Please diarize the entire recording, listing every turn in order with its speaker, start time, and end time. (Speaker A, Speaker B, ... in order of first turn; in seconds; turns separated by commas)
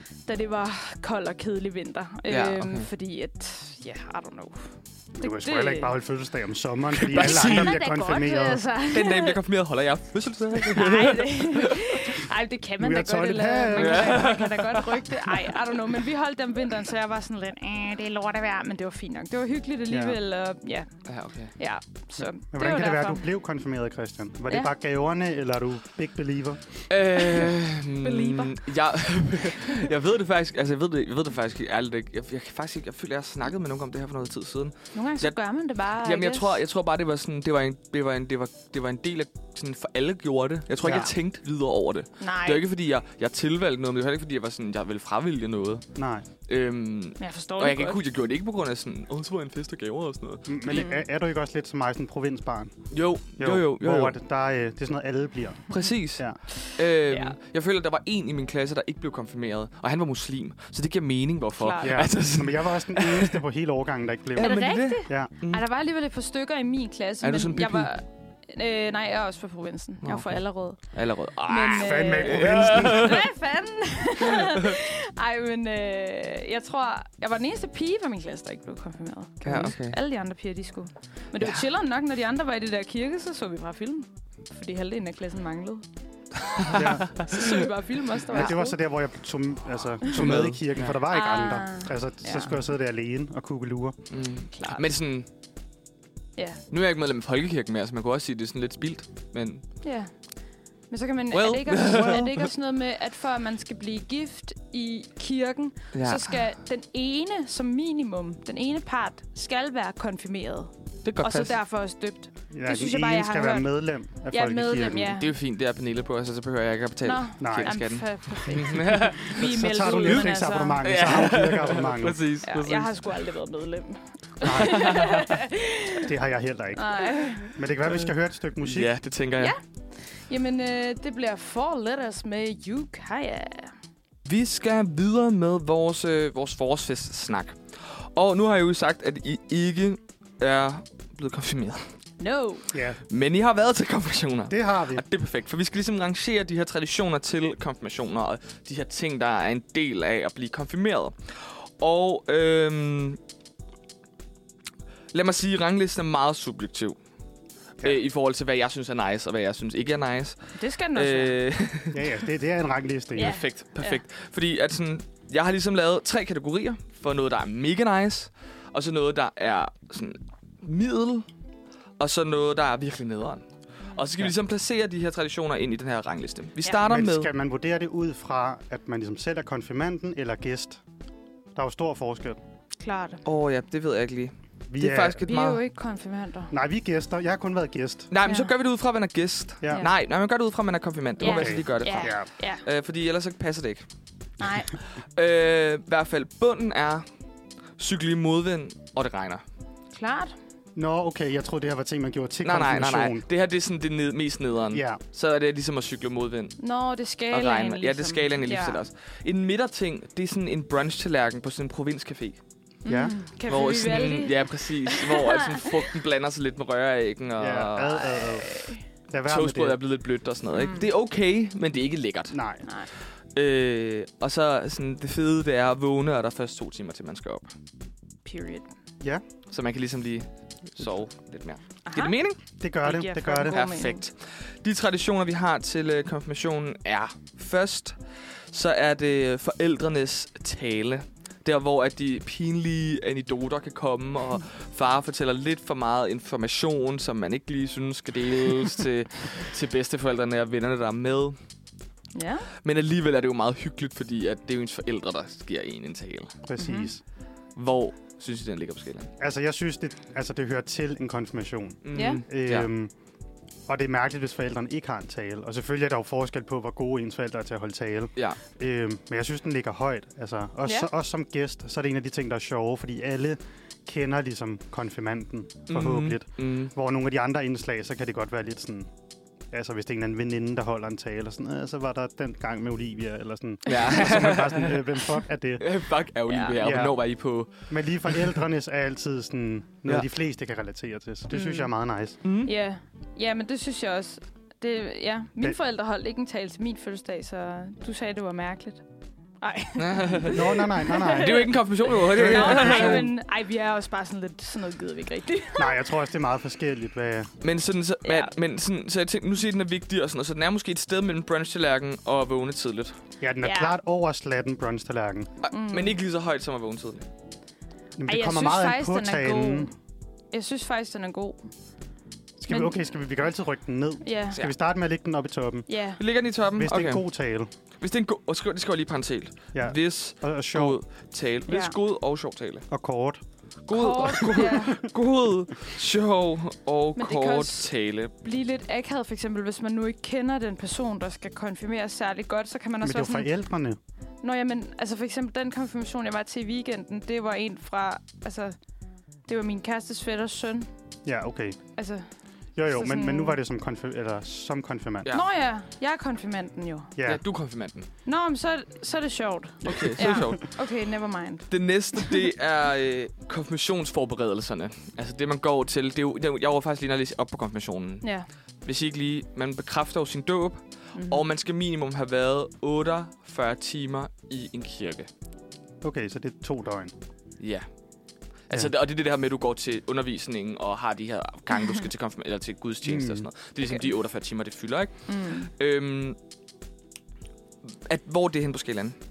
Speaker A: 0.2-5.9, Speaker B: 2.3-2.9, Speaker C: 5.2-8.6, Speaker B: 6.9-7.8, Speaker A: 7.1-9.4, Speaker B: 8.9-12.0, Speaker A: 10.7-20.9, Speaker C: 12.8-14.4, Speaker B: 13.8-15.0, Speaker C: 19.9-20.2, Speaker B: 21.1-21.5, Speaker A: 21.6-23.2, Speaker C: 22.5-26.9, Speaker B: 26.9-35.3, Speaker A: 27.2-27.5, Speaker A: 28.0-28.7, Speaker A: 29.5-29.9, Speaker A: 34.9-36.6, Speaker B: 36.0-45.9, Speaker C: 40.8-41.1, Speaker A: 42.2-42.6, Speaker C: 45.9-46.2, Speaker B: 46.5-50.5, Speaker A: 47.2-48.0, Speaker C: 50.5-56.4, Speaker A: 50.6-51.0, Speaker B: 52.9-54.1, Speaker B: 55.7-63.4, Speaker A: 56.5-57.4, Speaker A: 61.6-62.0, Speaker C: 61.8-65.3, Speaker B: 64.3-65.6, Speaker A: 64.4-85.8, Speaker B: 67.2-67.9, Speaker B: 70.0-73.3, Speaker C: 71.8-73.3, Speaker B: 74.3-74.7, Speaker B: 79.4-80.0, Speaker B: 86.6-87.5, Speaker A: 86.7-88.8, Speaker C: 86.7-87.1, Speaker C: 88.3-94.0, Speaker B: 90.1-90.6, Speaker A: 91.1-92.5, Speaker B: 94.1-95.3, Speaker A: 94.5-94.8, Speaker B: 96.7-99.6, Speaker A: 99.8-100.1, Speaker A: 100.9-113.7, Speaker B: 101.3-102.5, Speaker C: 102.0-102.2, Speaker B: 105.9-106.4, Speaker B: 111.0-111.5, Speaker C: 112.5-115.2, Speaker A: 114.3-115.3, Speaker B: 115.2-120.3, Speaker A: 117.0-120.8, Speaker C: 117.4-117.8, Speaker C: 119.3-122.2, Speaker B: 120.8-123.2, Speaker A: 122.4-126.1, Speaker C: 124.4-125.1, Speaker B: 124.5-125.2, Speaker C: 126.0-128.9, Speaker A: 126.8-127.5, Speaker B: 128.6-129.6, Speaker A: 129.4-133.7, Speaker B: 134.2-141.8, Speaker A: 142.2-142.7, Speaker C: 142.7-143.0, Speaker B: 143.1-153.2, Speaker C: 144.5-145.0, Speaker B: 155.1-157.0, Speaker B: 157.8-162.2, Speaker A: 160.5-161.4, Speaker C: 161.9-163.3, Speaker A: 163.1-164.0, Speaker B: 163.2-171.3, Speaker B: 172.0-177.3, Speaker C: 176.8-180.8, Speaker C: 181.5-182.4, Speaker A: 182.8-183.2, Speaker B: 183.2-185.6, Speaker C: 184.7-185.2, Speaker A: 185.2-186.5, Speaker C: 186.5-188.1, Speaker B: 188.1-193.8, Speaker A: 188.2-188.5, Speaker C: 189.6-189.9, Speaker C: 191.2-192.3, Speaker A: 191.2-192.6, Speaker A: 194.4-194.7, Speaker B: 195.0-197.1, Speaker B: 197.8-199.4, Speaker A: 199.9-200.3, Speaker C: 200.8-203.2, Speaker B: 202.4-206.6, Speaker C: 204.7-205.0, Speaker A: 206.6-208.8, Speaker B: 207.3-212.4, Speaker A: 212.8-215.7, Speaker C: 212.9-213.1, Speaker B: 213.5-218.7, Speaker C: 217.4-218.5, Speaker A: 218.4-218.8, Speaker C: 219.1-219.8, Speaker B: 219.2-222.4, Speaker A: 220.5-220.8, Speaker C: 222.3-222.6, Speaker A: 222.6-222.9, Speaker B: 223.3-227.5, Speaker A: 228.2-228.7, Speaker B: 229.5-232.4, Speaker A: 231.8-232.1, Speaker C: 232.6-233.6, Speaker A: 232.8-234.0, Speaker B: 233.4-238.0, Speaker B: 238.5-251.4, Speaker A: 252.1-252.5, Speaker B: 252.6-256.3, Speaker C: 256.4-257.0, Speaker A: 256.6-256.9, Speaker B: 257.6-259.1, Speaker C: 259.2-262.9, Speaker B: 261.8-262.7, Speaker A: 261.9-262.2, Speaker C: 263.7-278.9, Speaker B: 275.7-276.7, Speaker C: 279.5-285.7, Speaker B: 283.7-285.1, Speaker B: 285.6-287.5, Speaker A: 286.3-286.6, Speaker C: 286.6-287.0, Speaker C: 287.7-292.2, Speaker A: 291.3-291.7, Speaker B: 292.2-292.5, Speaker A: 292.4-298.8, Speaker A: 299.4-305.8, Speaker B: 299.8-300.6, Speaker C: 300.2-301.6, Speaker B: 301.1-303.1, Speaker C: 302.1-303.1, Speaker C: 305.6-307.3, Speaker B: 307.4-313.0, Speaker A: 308.0-308.3, Speaker C: 313.2-315.3, Speaker A: 313.4-313.7, Speaker B: 315.4-317.1, Speaker A: 315.5-315.9, Speaker C: 318.0-319.7, Speaker A: 318.1-319.7, Speaker A: 320.3-321.5, Speaker C: 322.4-325.7, Speaker A: 322.5-322.8, Speaker A: 324.0-324.4, Speaker A: 325.7-326.0, Speaker B: 326.0-327.0, Speaker C: 326.6-327.5, Speaker B: 327.8-332.6, Speaker C: 329.5-330.8, Speaker A: 331.5-331.7, Speaker C: 332.7-333.2, Speaker B: 333.6-338.1, Speaker A: 333.7-334.8, Speaker A: 336.9-343.3, Speaker C: 342.8-343.8, Speaker A: 344.2-348.6, Speaker A: 349.3-350.7, Speaker C: 351.0-351.6, Speaker A: 351.8-352.1, Speaker C: 352.6-355.1, Speaker A: 352.7-353.4, Speaker A: 355.1-356.9, Speaker C: 356.9-357.2, Speaker B: 357.0-357.9, Speaker A: 358.0-362.2, Speaker B: 359.6-360.6, Speaker B: 361.5-368.1, Speaker A: 368.0-368.3, Speaker B: 368.6-375.1, Speaker A: 370.9-371.2, Speaker C: 375.8-376.9, Speaker B: 377.4-377.7, Speaker B: 378.5-386.2, Speaker C: 382.8-383.3, Speaker A: 383.6-383.9, Speaker A: 385.1-385.5, Speaker B: 387.8-388.9